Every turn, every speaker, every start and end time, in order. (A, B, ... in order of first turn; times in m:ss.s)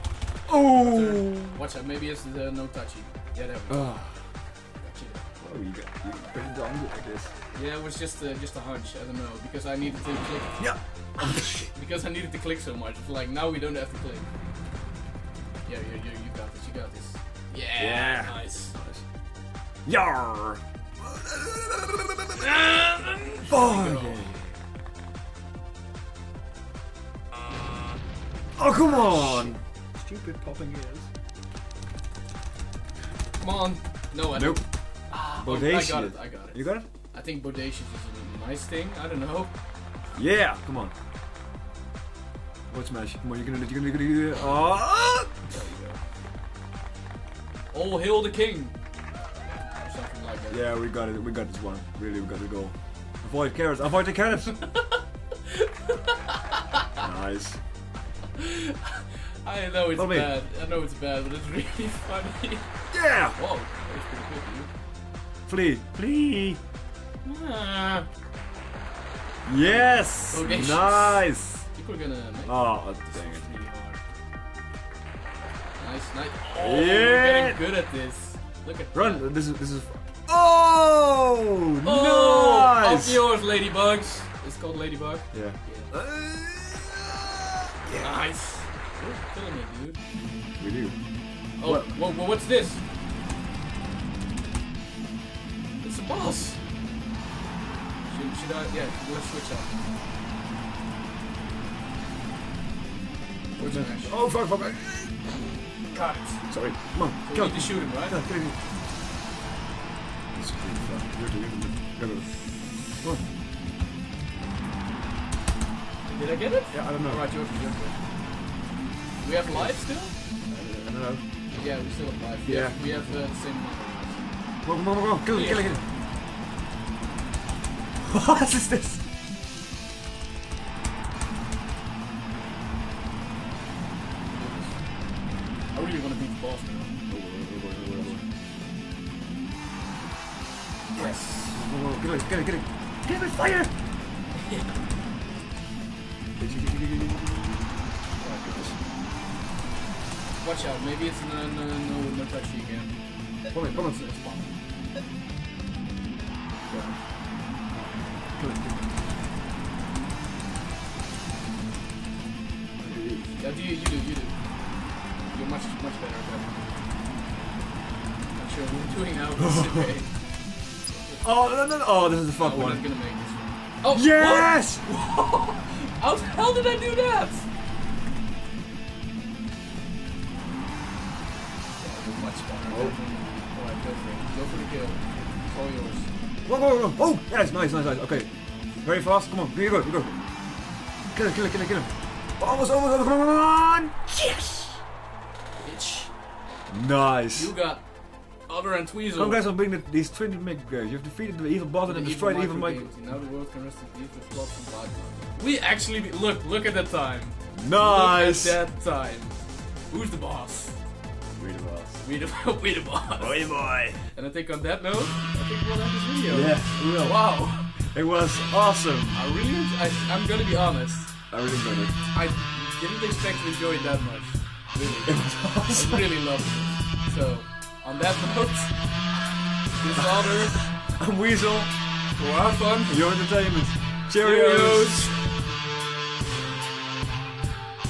0:00.5-0:01.6 A
0:00.5-0:03.9 B
0:03.7-0:04.2 A
0:04.8-0:05.3 B
0:05.4-0:07.4 A
0:07.5-0:14.3 B
0:10.6-0:11.7 A
0:15.7-0:18.8 B
0:17.8-0:19.0 A
0:19.9-0:22.4 A
0:22.3-0:24.3 B
0:23.5-0:24.6 A
0:28.6-0:31.1 A
0:28.6-0:29.6 B
0:33.4-0:39.5 B
0:34.3-0:34.6 A
0:35.2-0:36.9 A
0:40.2-0:40.9 A
0:42.7-0:45.4 A
0:45.5-0:46.0 B
0:47.7-0:48.8 B
0:49.8-0:50.7 B
0:50.5-0:54.6 A
0:54.5-0:57.0 B
0:57.0-0:57.6 A
0:58.4-1:02.8 B
1:00.0-1:00.3 A
1:02.9-1:03.4 A
1:03.3-1:04.7 B
1:05.5-1:06.6 A
1:07.2-1:08.1 B
1:09.5-1:11.6 A
1:09.6-1:14.0 B
1:12.5-1:13.5 A
1:15.8-1:19.3 B
1:16.6-1:17.6 A
1:18.9-1:23.2 A
1:21.8-1:25.9 B
1:25.3-1:28.2 A
1:28.0-1:30.0 B
1:30.6-1:31.0 A
1:31.6-1:32.8 B
1:31.6-1:32.0 A
1:35.8-1:36.6 B
1:38.1-1:39.7 B
1:43.6-1:44.2 B
1:43.6-1:45.2 A
1:45.9-1:46.5 B
1:46.5-1:48.6 A
1:47.2-1:48.2 B
1:50.3-1:53.2 A
1:56.1-1:58.0 B
1:56.7-1:57.2 A
1:59.2-2:00.2 B
1:59.4-1:59.8 A
2:00.5-2:01.2 A
2:01.5-2:04.4 B
2:02.4-2:03.2 A
2:04.6-2:05.8 A
2:05.3-2:05.8 B
2:08.0-2:09.0 A
2:14.2-2:14.8 B
2:15.7-2:17.0 B
2:17.1-2:18.2 A
2:18.0-2:18.2 B
2:20.9-2:21.7 B
2:21.0-2:23.7 A
2:24.3-2:24.8 B
2:26.4-2:27.8 A
2:28.2-2:28.8 B
2:28.4-2:28.8 A
2:30.4-2:33.0 B
2:33.5-2:34.0 A
2:33.6-2:34.5 B
2:36.6-2:37.0 B
2:37.7-2:39.1 A
2:42.8-2:43.4 A
2:43.4-2:44.4 B
2:45.3-2:46.7 B
2:48.4-2:50.1 B
2:49.4-2:49.9 A
2:50.9-2:51.3 B
2:51.2-2:52.8 A
2:52.4-2:57.5 B
2:53.9-2:54.8 A
3:01.8-3:06.1 B
3:02.7-3:03.0 A
3:06.5-3:10.2 A
3:11.1-3:14.8 A
3:15.6-3:16.1 B
3:16.7-3:17.5 A
3:17.3-3:17.9 B
3:18.5-3:19.4 B
3:19.2-3:22.9 A
3:21.9-3:30.8 B
3:27.5-3:28.6 A
3:31.4-3:32.0 A
3:32.0-3:37.8 B
3:33.2-3:34.0 A
3:36.3-3:39.2 A
3:39.1-3:41.3 B
3:41.3-3:42.0 A
3:42.1-3:49.2 B
3:45.1-3:46.1 A
3:49.8-3:50.7 B
3:50.8-3:51.7 A
3:52.2-3:53.0 B
3:52.9-3:55.1 A
3:54.2-3:55.4 B